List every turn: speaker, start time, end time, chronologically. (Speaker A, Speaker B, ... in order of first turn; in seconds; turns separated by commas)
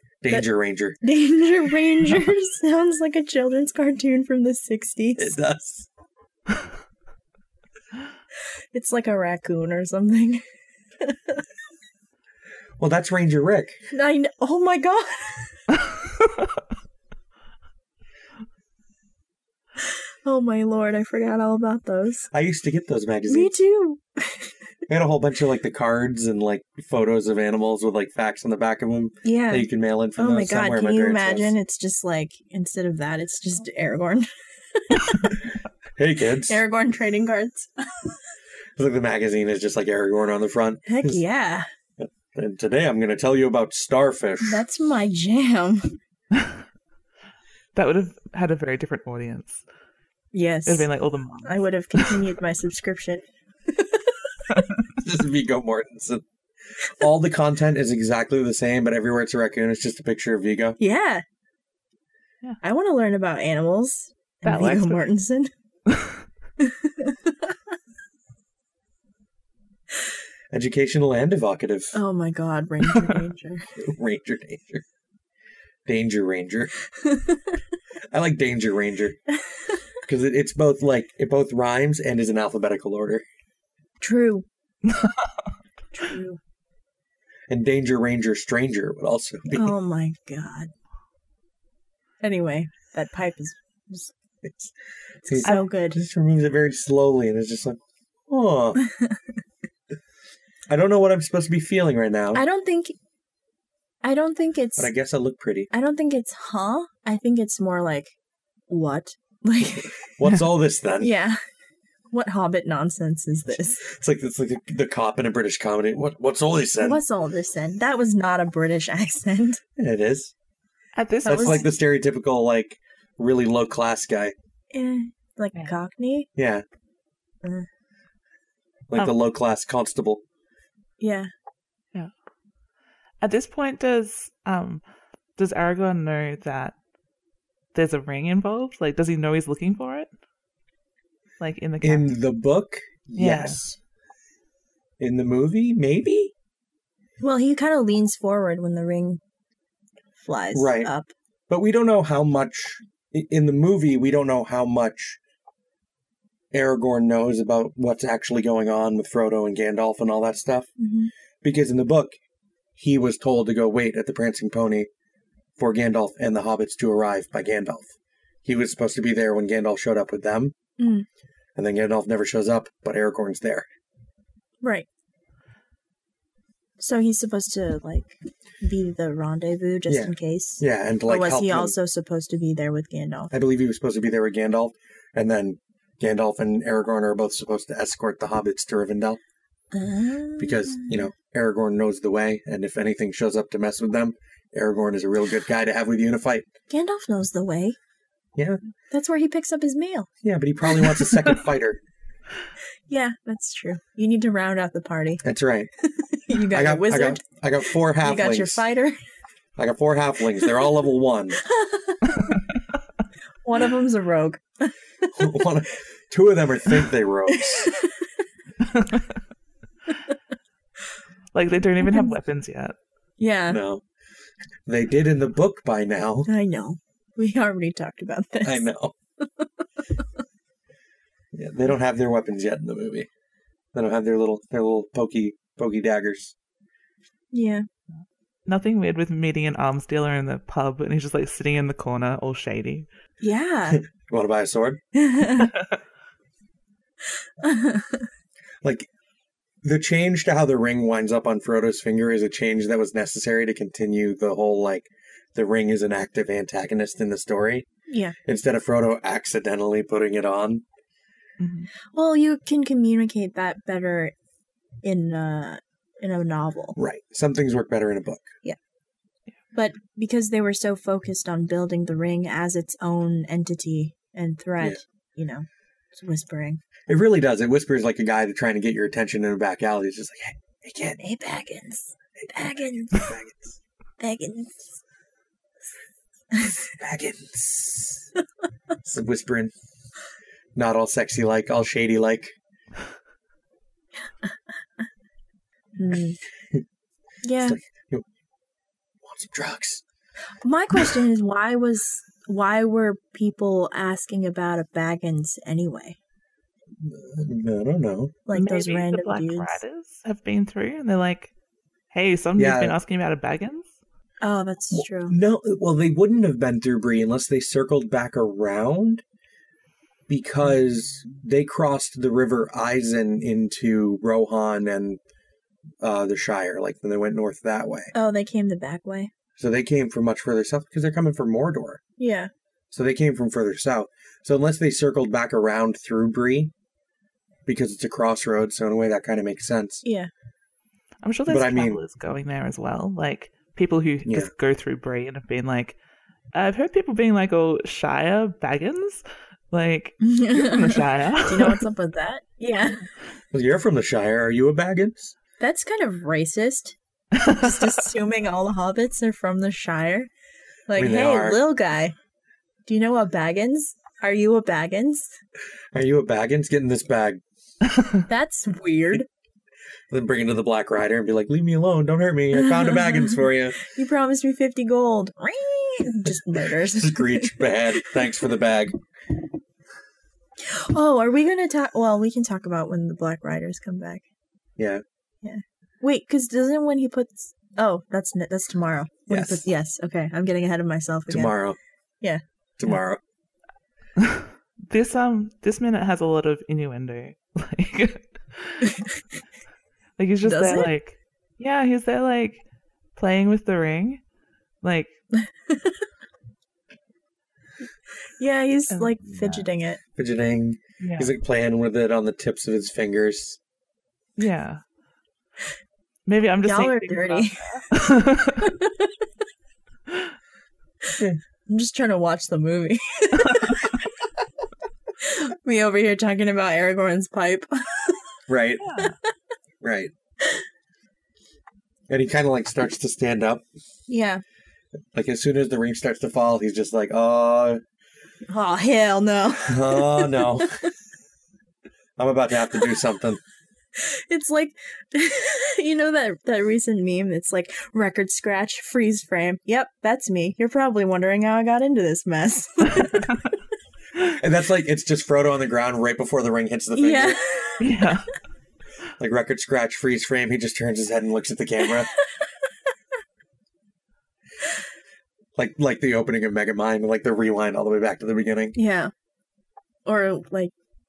Speaker A: 0.2-1.0, Speaker B: 1.0-5.4, Speaker A: 5.2-5.9, Speaker B: 8.7-10.4, Speaker B: 11.0-11.4, Speaker A: 12.8-13.8, Speaker B: 13.9-15.6, Speaker B: 19.9-22.3, Speaker A: 22.3-23.6, Speaker B: 23.3-24.6, Speaker A: 24.9-31.6, Speaker B: 29.2-35.4, Speaker A: 36.0-36.6, Speaker B: 36.5-38.2, Speaker A: 38.8-41.2, Speaker B: 40.9-41.7, Speaker A: 42.0-44.6, Speaker B: 44.4-46.0, Speaker C: 47.8-49.6, Speaker B: 50.3-54.6, Speaker C: 50.7-52.2, Speaker A: 55.0-56.2, Speaker A: 56.8-60.8, Speaker B: 60.8-61.2, Speaker B: 62.6-65.5, Speaker C: 64.4-65.0, Speaker B: 66.6-67.6, Speaker A: 70.5-72.0, Speaker B: 71.9-73.7, Speaker A: 73.8-74.8, Speaker A: 75.9-76.7, Speaker B: 77.0-77.5, Speaker A: 78.1-79.2, Speaker A: 80.0-83.2, Speaker B: 84.0-84.5, Speaker B: 85.9-86.4, Speaker A: 87.5-89.8, Speaker B: 89.5-90.7, Speaker B: 92.2-94.1, Speaker A: 94.4-94.7, Speaker B: 95.3-96.0, Speaker A: 95.3-98.8, Speaker B: 98.8-99.2, Speaker A: 100.7-102.4, Speaker B: 102.3-102.9, Speaker B: 104.0-104.9, Speaker A: 104.8-105.7, Speaker B: 105.7-108.1, Speaker B: 108.7-110.0, Speaker A: 110.2-111.1, Speaker B: 111.0-111.4, Speaker B: 112.1-113.8, Speaker A: 113.8-117.0, Speaker B: 116.8-119.6, Speaker A: 119.8-120.3, Speaker C: 121.0-121.7, Speaker B: 121.2-121.7, Speaker A: 121.3-124.3, Speaker B: 124.7-126.3, Speaker A: 126.4-126.7, Speaker A: 128.9-130.2, Speaker B: 131.0-131.3, Speaker C: 133.2-134.8, Speaker C: 135.4-136.8, Speaker C: 137.7-140.1, Speaker C: 141.4-142.1, Speaker A: 141.8-143.8, Speaker C: 143.2-143.6, Speaker A: 145.0-146.3, Speaker B: 147.2-149.2, Speaker B: 150.2-151.1, Speaker A: 150.5-150.9, Speaker A: 151.5-155.2, Speaker A: 156.5-160.7, Speaker B: 160.8-161.1, Speaker A: 161.4-162.2, Speaker A: 162.8-164.9, Speaker A: 165.6-167.9, Speaker A: 168.4-170.5, Speaker B: 170.8-171.1, Speaker A: 171.6-173.7, Speaker B: 176.8-183.3, Speaker A: 179.9-181.8, Speaker A: 183.3-189.2, Speaker B: 189.7-191.1, Speaker A: 190.4-196.5, Speaker B: 196.7-197.8, Speaker B: 198.9-200.1, Speaker A: 200.2-201.8, Speaker B: 202.9-205.2, Speaker A: 205.2-205.7, Speaker B: 205.8-207.2, Speaker A: 206.3-208.7, Speaker B: 208.0-209.0, Speaker A: 209.6-211.4, Speaker B: 211.4-212.4, Speaker B: 213.4-215.3, Speaker A: 215.2-217.7, Speaker B: 217.3-218.0, Speaker C: 218.8-219.0, Speaker C: 221.3-222.8, Speaker B: 221.8-222.2, Speaker B: 223.2-223.6, Speaker A: 223.5-223.8, Speaker A: 224.7-226.3, Speaker B: 226.3-228.7, Speaker A: 228.4-228.9, Speaker B: 229.4-230.0, Speaker A: 231.3-233.1, Speaker A: 233.8-236.3, Speaker B: 237.3-237.7, Speaker C: 238.4-242.9, Speaker B: 243.2-243.8, Speaker A: 243.7-244.8, Speaker B: 244.9-245.5, Speaker C: 245.3-245.7, Speaker B: 247.4-248.1, Speaker A: 248.6-248.9, Speaker A: 249.6-257.7, Speaker B: 257.9-258.2, Speaker A: 258.3-260.6, Speaker C: 261.4-261.7, Speaker B: 261.9-264.1, Speaker B: 264.8-266.8, Speaker A: 266.8-268.3, Speaker B: 269.6-276.6, Speaker A: 276.9-281.1, Speaker B: 281.0-283.1, Speaker A: 282.9-283.6, Speaker B: 284.0-284.8, Speaker A: 286.8-288.1, Speaker A: 288.8-289.5, Speaker A: 290.6-292.4, Speaker B: 295.8-296.2, Speaker B: 297.2-297.6, Speaker A: 297.4-298.1, Speaker A: 299.0-299.8, Speaker B: 300.4-306.0, Speaker A: 306.8-308.2, Speaker B: 308.3-309.6, Speaker C: 308.3-311.3, Speaker C: 311.9-313.7, Speaker A: 312.4-312.8, Speaker B: 314.2-315.2, Speaker A: 314.7-319.0, Speaker A: 320.1-325.0, Speaker A: 325.8-327.9, Speaker B: 327.9-329.1, Speaker A: 329.4-331.8, Speaker B: 332.0-332.3, Speaker A: 332.7-336.5, Speaker A: 337.4-339.8, Speaker B: 339.8-340.1, Speaker C: 341.0-345.8, Speaker A: 341.3-341.8, Speaker A: 344.1-344.3, Speaker C: 346.3-351.6, Speaker B: 350.0-352.9, Speaker A: 353.3-355.1, Speaker B: 355.4-360.1, Speaker B: 360.7-361.9, Speaker A: 360.8-361.4, Speaker B: 362.7-365.1, Speaker A: 365.7-367.2, Speaker B: 368.1-369.1, Speaker A: 369.9-373.6, Speaker B: 372.4-377.6, Speaker A: 376.7-378.8, Speaker B: 380.4-384.1, Speaker A: 384.6-384.8, Speaker B: 385.2-391.4, Speaker A: 389.1-389.4, Speaker A: 391.1-391.6, Speaker A: 392.6-393.0, Speaker C: 394.0-398.8, Speaker B: 398.7-398.9, Speaker C: 400.0-402.4, Speaker B: 400.2-400.7, Speaker C: 402.9-404.0, Speaker C: 404.6-404.9, Speaker B: 405.2-405.7, Speaker B: 408.2-409.8, Speaker C: 408.7-409.4, Speaker A: 410.0-413.4, Speaker C: 410.8-411.1, Speaker C: 414.2-414.6, Speaker C: 416.1-418.5, Speaker B: 416.4-417.6, Speaker B: 418.4-418.9, Speaker B: 421.5-423.9, Speaker B: 425.0-428.0, Speaker A: 428.3-428.7, Speaker C: 428.6-428.9, Speaker A: 429.6-429.9, Speaker A: 431.9-433.4, Speaker B: 433.9-434.2, Speaker A: 434.9-437.6, Speaker B: 438.3-440.7, Speaker A: 439.4-440.5, Speaker A: 442.0-443.2, Speaker B: 443.8-453.3, Speaker A: 454.0-457.2, Speaker B: 456.8-457.7, Speaker C: 457.6-458.1, Speaker A: 459.0-461.9, Speaker A: 465.4-468.6, Speaker B: 468.6-468.9, Speaker B: 469.9-470.5